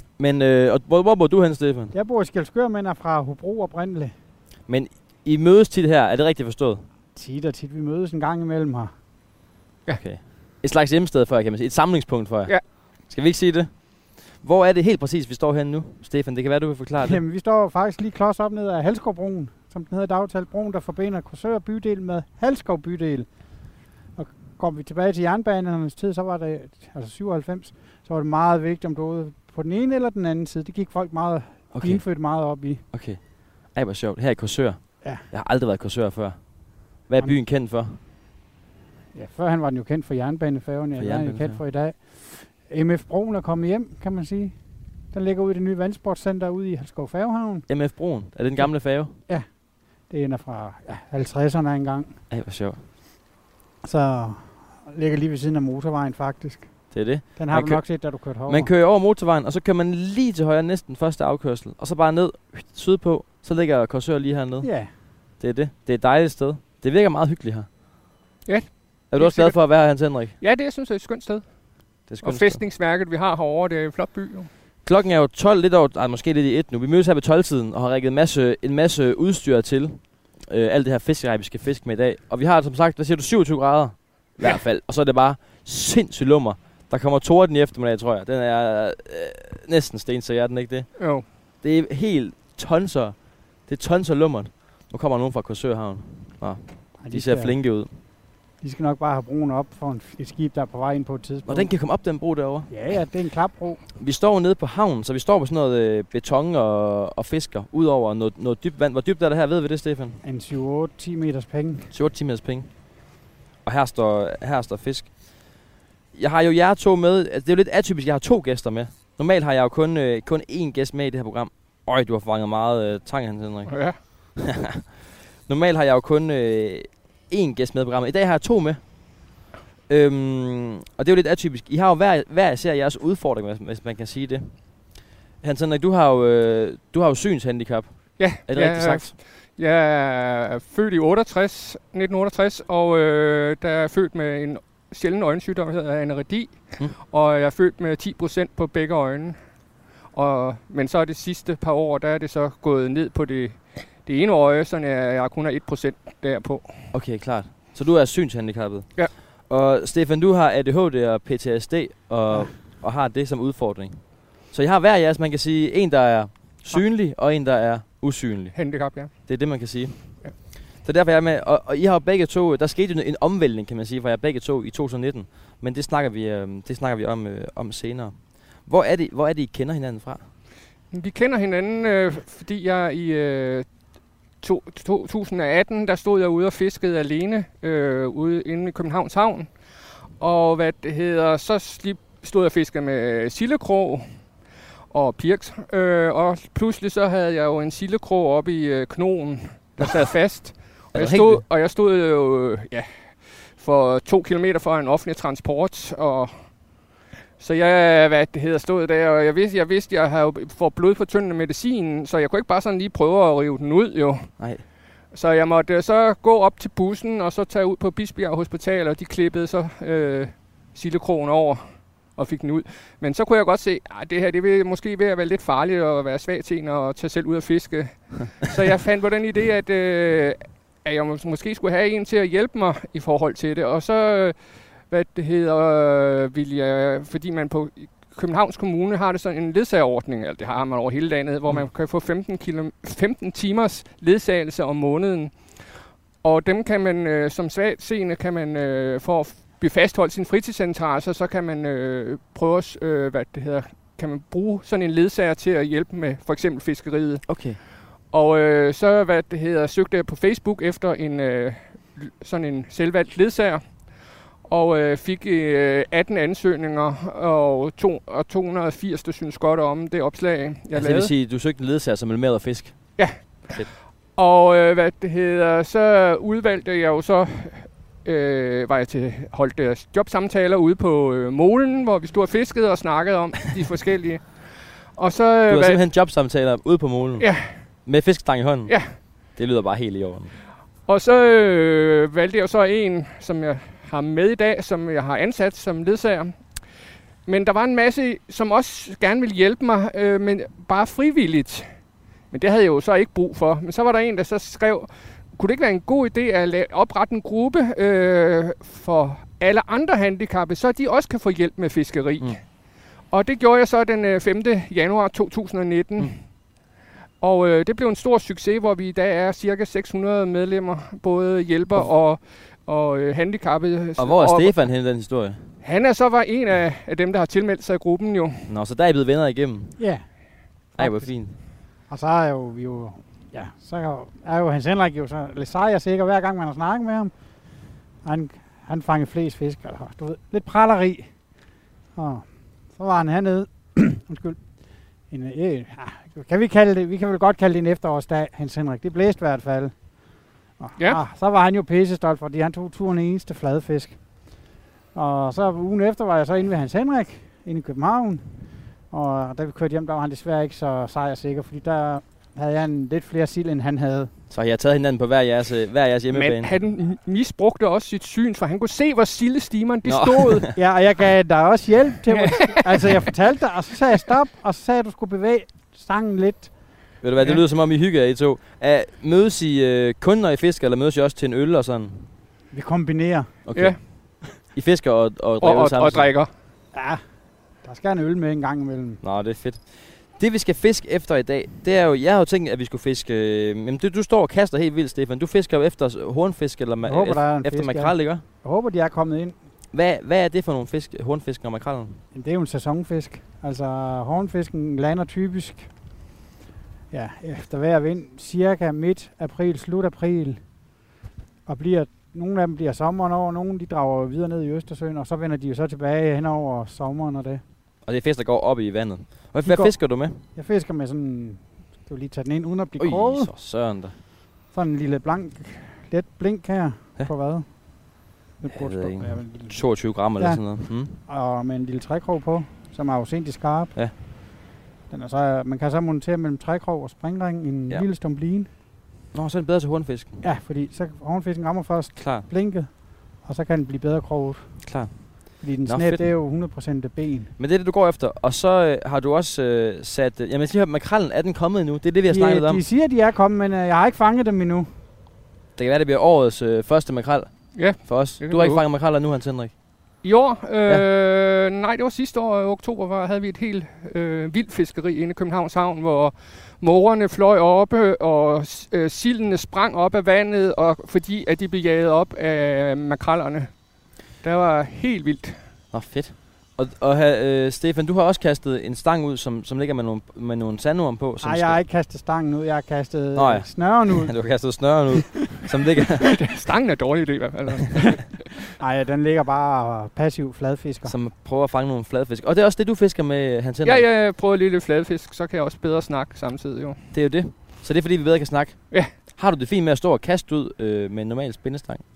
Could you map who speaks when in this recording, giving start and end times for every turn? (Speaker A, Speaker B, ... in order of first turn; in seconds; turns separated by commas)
Speaker A: 0.2-1.9, Speaker B: 1.9-4.1, Speaker A: 4.7-6.8, Speaker B: 7.2-8.9, Speaker A: 10.0-17.2, Speaker B: 17.0-23.3, Speaker B: 24.2-32.8, Speaker A: 31.7-32.0, Speaker A: 32.9-38.0, Speaker B: 39.1-44.6, Speaker A: 41.0-41.6, Speaker B: 45.1-47.7, Speaker A: 47.7-49.1, Speaker B: 50.1-52.2, Speaker A: 52.3-52.8, Speaker B: 53.8-56.8, Speaker A: 56.9-57.8, Speaker B: 57.4-58.7, Speaker A: 58.5-64.7, Speaker B: 64.6-64.9, Speaker A: 65.4-67.7, Speaker C: 68.5-69.6, Speaker A: 69.1-70.3, Speaker C: 70.4-71.4, Speaker A: 72.1-72.6, Speaker C: 72.2-74.5, Speaker A: 74.8-90.9, Speaker C: 91.0-91.2, Speaker A: 91.6-93.2, Speaker A: 93.7-97.9, Speaker B: 97.0-97.5, Speaker B: 98.6-101.7, Speaker A: 101.5-102.7, Speaker B: 102.7-103.8, Speaker A: 104.0-110.2, Speaker B: 110.2-111.9, Speaker A: 111.9-112.7, Speaker A: 113.6-115.1, Speaker A: 116.1-124.9, Speaker C: 123.7-124.0, Speaker A: 125.5-128.8, Speaker A: 129.9-134.6, Speaker A: 135.4-139.1, Speaker C: 138.2-149.4, Speaker C: 150.1-156.7, Speaker A: 156.9-168.6, Speaker C: 168.6-169.1, Speaker A: 169.3-170.0, Speaker A: 170.8-180.2, Speaker C: 180.9-183.7, Speaker C: 184.4-189.5, Speaker C: 190.2-194.1, Speaker C: 194.9-206.4, Speaker A: 200.9-201.4, Speaker C: 207.4-214.3, Speaker A: 214.4-214.6, Speaker C: 215.1-257.4, Speaker A: 257.3-257.6, Speaker C: 258.1-263.9, Speaker C: 264.4-271.1, Speaker A: 270.7-272.8, Speaker C: 273.0-285.8, Speaker A: 285.5-287.3, Speaker C: 287.2-287.5, Speaker A: 287.9-288.8, Speaker C: 288.7-288.9, Speaker A: 289.3-290.3, Speaker C: 290.9-296.6, Speaker C: 297.3-301.7, Speaker C: 302.3-312.4, Speaker C: 313.1-316.2, Speaker C: 317.2-324.6, Speaker A: 324.0-325.4, Speaker C: 325.6-328.5, Speaker A: 328.5-329.8, Speaker B: 329.8-330.1, Speaker A: 330.8-331.4, Speaker B: 330.8-331.1, Speaker B: 331.9-337.1, Speaker B: 338.0-341.1, Speaker B: 342.0-344.4, Speaker B: 345.1-349.8, Speaker B: 350.6-354.0, Speaker B: 354.9-358.2, Speaker B: 358.9-364.1, Speaker A: 364.3-366.5, Speaker C: 366.1-370.5, Speaker A: 369.8-370.6, Speaker B: 370.6-376.5, Speaker C: 372.1-372.7, Speaker A: 377.0-382.1, Speaker B: 382.5-383.4, Speaker A: 383.5-383.8, Speaker A: 384.4-386.1, Speaker C: 385.4-386.3, Speaker B: 386.7-387.0, Speaker B: 387.6-389.0, Speaker A: 389.0-398.2, Speaker B: 396.9-399.4, Speaker A: 399.7-402.0, Speaker B: 402.1-405.7, Speaker B: 406.9-410.4, Speaker B: 411.5-417.4, Speaker A: 417.9-420.2, Speaker B: 419.4-423.3, Speaker A: 422.8-423.9, Speaker B: 424.5-427.6, Speaker B: 428.4-429.6, Speaker A: 428.5-431.0, Speaker B: 430.1-433.8, Speaker B: 434.9-438.5, Speaker A: 439.1-440.2, Speaker B: 440.2-444.6, Speaker A: 442.0-442.3, Speaker A: 444.6-446.1, Speaker B: 445.4-447.3, Speaker A: 447.4-452.6, Speaker B: 452.1-454.7, Speaker A: 455.6-459.5, Speaker C: 457.6-458.6, Speaker C: 460.0-473.5, Speaker C: 474.2-475.4, Speaker A: 475.7-481.6, Speaker B: 481.2-484.2, Speaker A: 483.1-486.2, Speaker C: 486.1-488.3, Speaker B: 488.6-490.9, Speaker A: 490.9-493.9, Speaker C: 493.6-496.8, Speaker A: 496.9-501.8